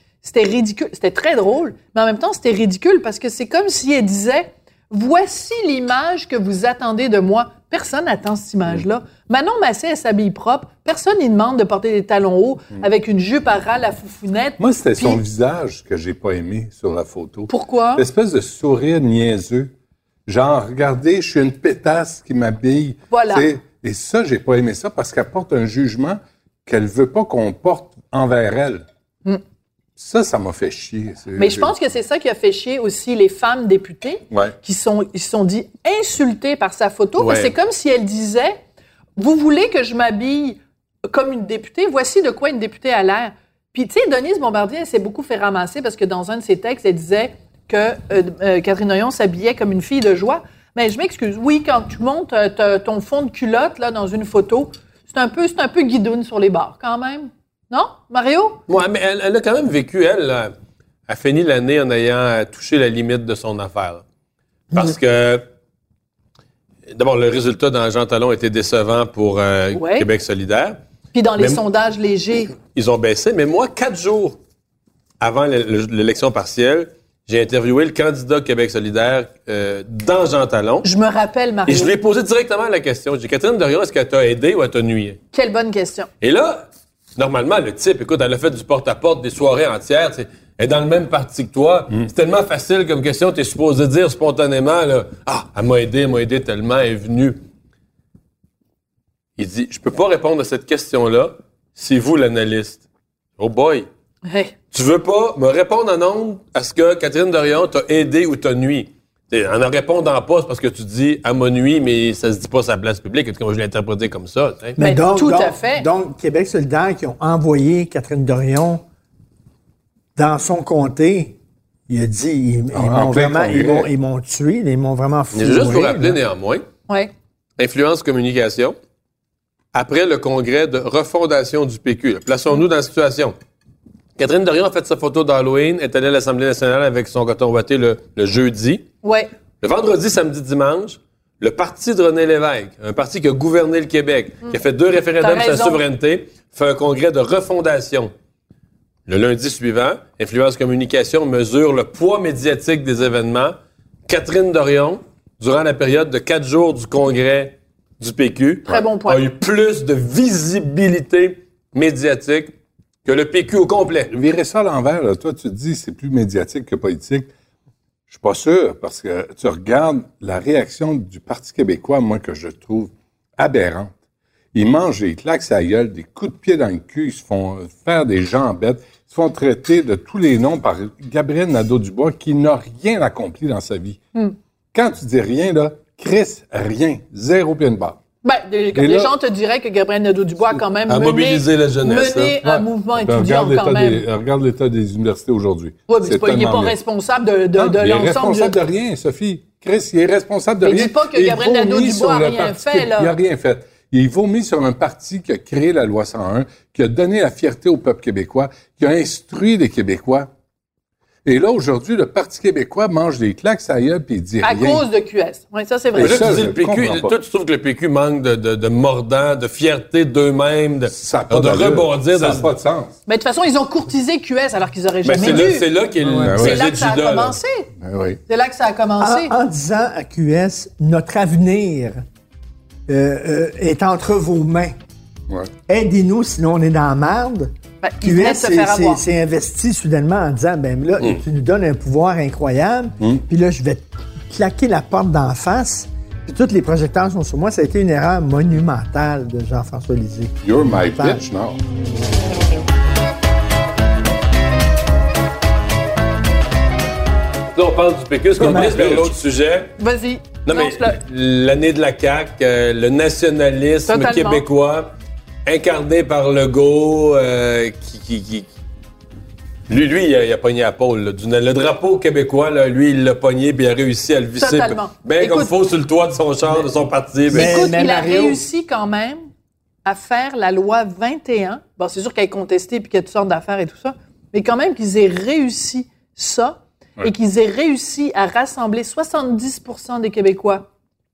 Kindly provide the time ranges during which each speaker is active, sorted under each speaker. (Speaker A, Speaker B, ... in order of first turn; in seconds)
Speaker A: 0.2-15.2, 17.5-18.0, 23.1-23.5, 31.4-38.6, 39.1-58.6, 69.7-70.1, 71.1-72.5, 80.8-81.9, 85.3-86.1, 104.2-104.5, 114.8-115.9, 139.0-139.3, 145.2-145.8, 158.7-159.2, 188.2-194.0, 195.9-198.6, 200.6-203.1, 214.4-216.4, 223.1-225.7, 226.3-227.7, 228.3-229.3, 237.8-239.0, 259.8-261.0, 263.9-264.4, 274.4-275.5, 277.3-279.2, 279.8-290.7
Speaker B: 14.6-19.7, 20.2-28.8, 30.0-31.7, 34.3-34.5, 122.7-123.9, 164.1-167.3, 168.1-173.9, 174.5-184.0, 184.7-188.0, 188.7-189.1, 192.4-196.8, 197.5-210.3, 211.2-214.8, 215.9-217.1, 220.9-222.9, 226.1-226.6, 227.8-228.2, 250.4-251.6, 258.4-259.1
Speaker C: 37.2-37.5, 58.7-60.5, 61.1-64.0, 64.7-65.4, 66.9-70.8, 71.4-71.6, 72.5-74.4, 75.2-80.8, 81.7-85.2, 86.2-97.4, 99.4-102.8, 103.4-103.9, 104.7-114.8, 125.3-126.6, 127.6-128.8, 129.7-133.3, 134.2-138.8, 139.6-148.1, 149.1-153.6, 154.1-162.5, 163.0-164.1, 190.9-192.4, 215.9-222.5, 225.0-227.4, 257.5-259.7, 260.4-264.9, 265.4-268.5, 269.7-277.6
Speaker D: 114.8-118.8, 120.2-121.4, 121.9-126.2, 229.0-232.0, 232.9-234.8, 235.7-251.2, 258.4-259.0, 277.3-278.4